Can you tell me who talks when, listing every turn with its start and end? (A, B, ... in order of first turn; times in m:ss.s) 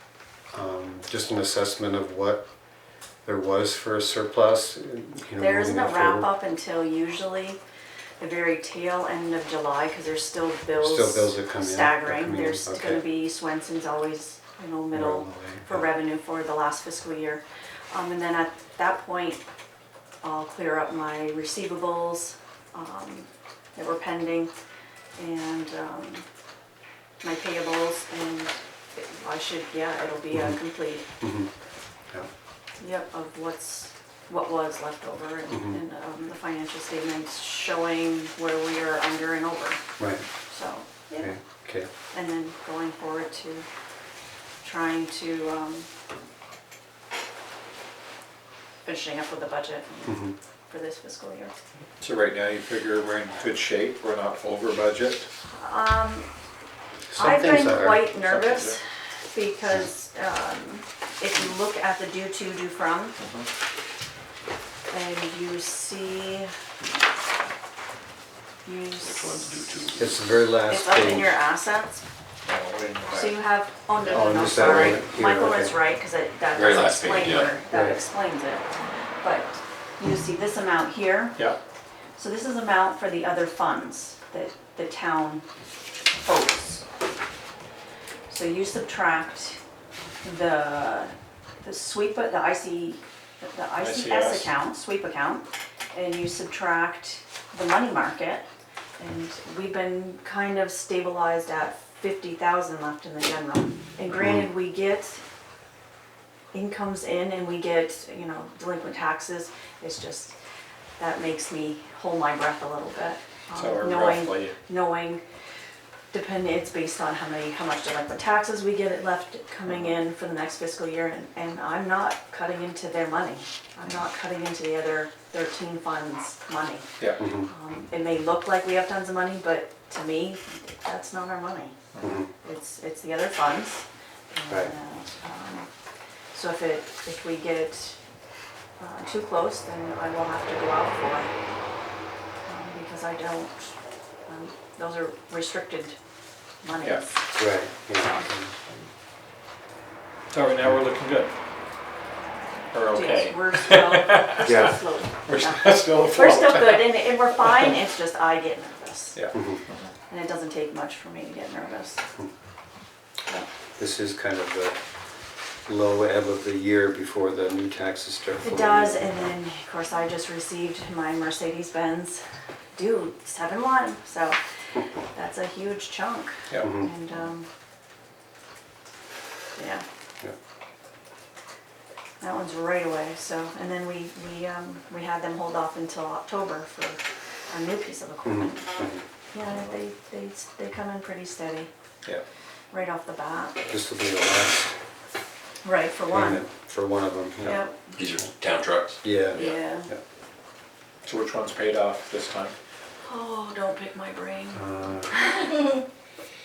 0:00.5-0:02.4 A
0:03.2-0:06.3 A
0:05.4-0:07.6 B
0:08.2-0:19.4 B
0:10.8-0:13.0 A
0:14.9-0:15.9 A
0:20.2-0:24.5 B
0:25.2-0:26.2 B
0:27.2-0:31.0 B
0:30.3-0:30.6 A
0:31.2-0:31.5 A
0:32.8-0:39.8 B
0:35.5-0:35.8 A
0:40.0-0:40.2 A
0:40.5-0:41.4 B
0:41.2-0:41.9 A
0:42.1-0:43.7 B
0:44.6-0:45.9 B
0:48.8-0:51.5 B
0:50.0-0:50.3 A
0:52.0-0:55.3 C
0:55.5-0:56.3 B
0:57.1-0:58.1 A
0:57.1-0:58.8 B
0:58.2-0:58.8 C
0:59.3-1:03.1 B
1:03.2-1:03.5 C
1:04.9-1:06.5 B
1:08.6-1:09.6 B
1:09.0-1:10.2 D
1:10.0-1:11.4 A
1:10.7-1:12.0 B
1:12.4-1:13.4 C
1:13.1-1:18.7 B
1:14.0-1:15.7 A
1:16.5-1:17.5 D
1:17.7-1:18.0 A
1:19.2-1:21.4 B
1:22.2-1:25.4 B
1:26.2-1:26.8 B
1:28.3-1:29.6 B
1:30.2-1:38.4 B
1:33.7-1:34.5 C
1:39.0-1:45.2 B
1:44.1-1:44.5 A
1:46.5-1:50.4 B
1:51.0-1:55.2 B
1:53.5-1:54.6 C
1:56.1-2:11.8 B
2:07.2-2:07.5 A
2:12.0-2:12.3 A
2:12.4-2:15.7 B
2:16.3-2:18.0 B
2:18.8-2:21.3 B
2:22.5-2:23.7 B
2:24.3-2:26.0 B
2:26.6-2:28.3 B
2:27.4-2:28.9 A
2:30.3-2:31.3 C
2:32.7-2:34.7 C
2:32.9-2:39.2 B
2:34.4-2:34.8 A
2:35.2-2:37.8 C
2:39.3-2:39.6 A
2:40.1-2:42.0 B
2:43.8-2:44.8 A
2:45.6-2:49.2 A
2:48.4-2:52.2 B
2:52.7-2:54.4 B
2:55.1-2:57.5 B
2:56.6-2:56.9 A
2:59.6-2:59.8 B
3:02.2-3:08.6 B
3:08.2-3:09.0 A
3:09.3-3:11.7 B
3:12.7-3:13.6 B
3:13.7-3:14.7 A
3:15.6-3:16.5 B
3:16.1-3:17.6 A
3:17.4-3:17.9 B
3:17.9-3:19.6 D
3:19.0-3:20.0 A
3:19.3-3:19.9 B
3:21.0-3:22.5 C
3:23.0-3:25.8 B
3:24.5-3:25.2 A